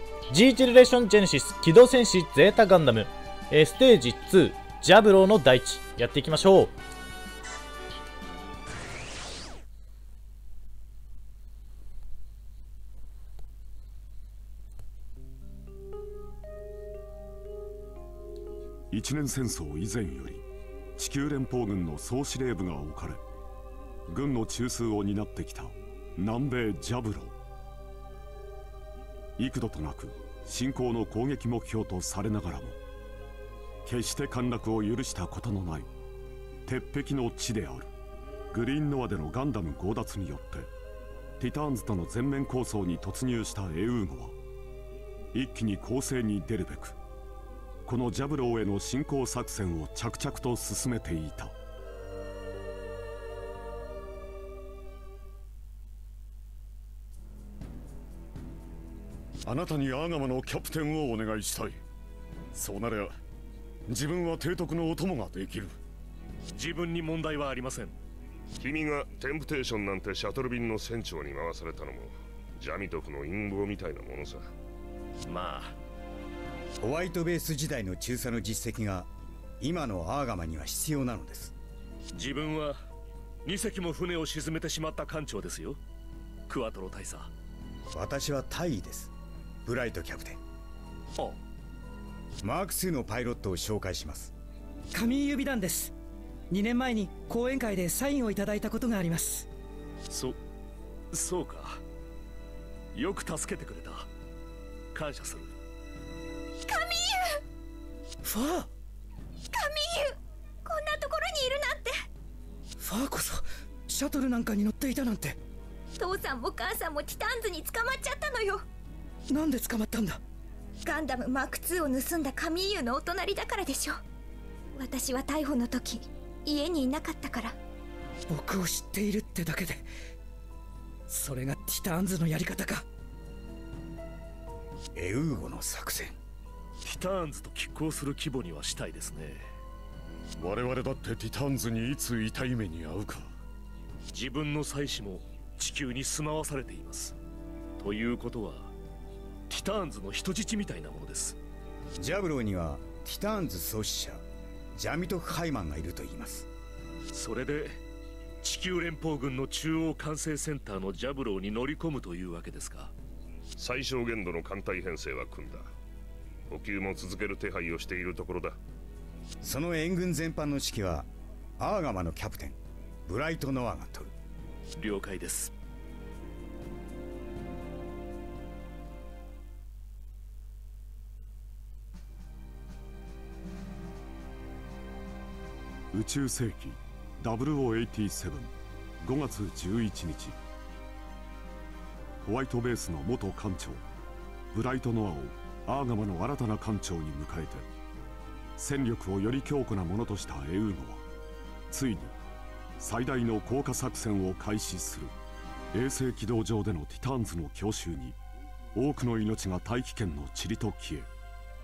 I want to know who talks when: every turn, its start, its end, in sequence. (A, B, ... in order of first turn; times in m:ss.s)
0:00.3-0:06.7 A
0:18.9-0:20.4 B
0:21.0-0:23.2 B
0:24.1-0:27.4 B
0:29.4-0:32.8 B
0:33.8-0:35.9 B
0:36.6-0:37.9 B
0:38.5-0:40.7 B
0:41.4-0:44.4 B
0:45.3-0:47.0 B
0:47.8-0:51.5 B
0:59.4-1:01.8 B
1:02.5-1:03.1 B
1:03.9-1:05.8 B
1:06.5-1:08.0 C
1:08.6-1:14.4 D
1:15.3-1:15.8 C
1:16.8-1:19.1 E
1:19.6-1:21.5 E
1:22.1-1:22.8 C
1:23.4-1:25.8 C
1:26.5-1:27.3 C
1:27.9-1:29.1 E
1:29.6-1:30.4 E
1:32.4-1:34.3 E
1:34.9-1:35.9 F
1:36.5-1:39.5 F
1:40.1-1:40.4 C
1:41.1-1:41.8 C
1:42.9-1:44.1 C
1:44.9-1:45.5 C
1:46.7-1:47.4 G
1:48.2-1:48.7 F
1:49.5-1:52.0 G
1:52.8-1:55.4 F
1:56.0-1:58.6 G
1:59.3-2:00.2 F
2:00.8-2:04.0 G
2:04.8-2:07.6 G
2:08.3-2:09.9 F
2:11.1-2:12.8 F
2:15.0-2:16.2 E
2:16.8-2:19.5 C
2:20.4-2:23.3 B
2:24.1-2:27.2 C
2:27.8-2:28.7 C
2:29.5-2:31.4 C
2:32.0-2:36.5 E
2:37.1-2:37.8 C
2:38.4-2:42.9 C
2:43.6-2:45.7 D
2:46.5-2:48.6 D
2:49.4-2:54.1 E
2:54.8-2:55.5 C
3:05.9-3:10.4 B
3:12.2-3:13.8 B
3:14.5-3:17.7 B
3:18.6-3:21.0 B
3:21.7-3:22.2 B
3:22.8-3:25.2 B
3:25.7-3:28.2 B
3:28.7-3:31.1 B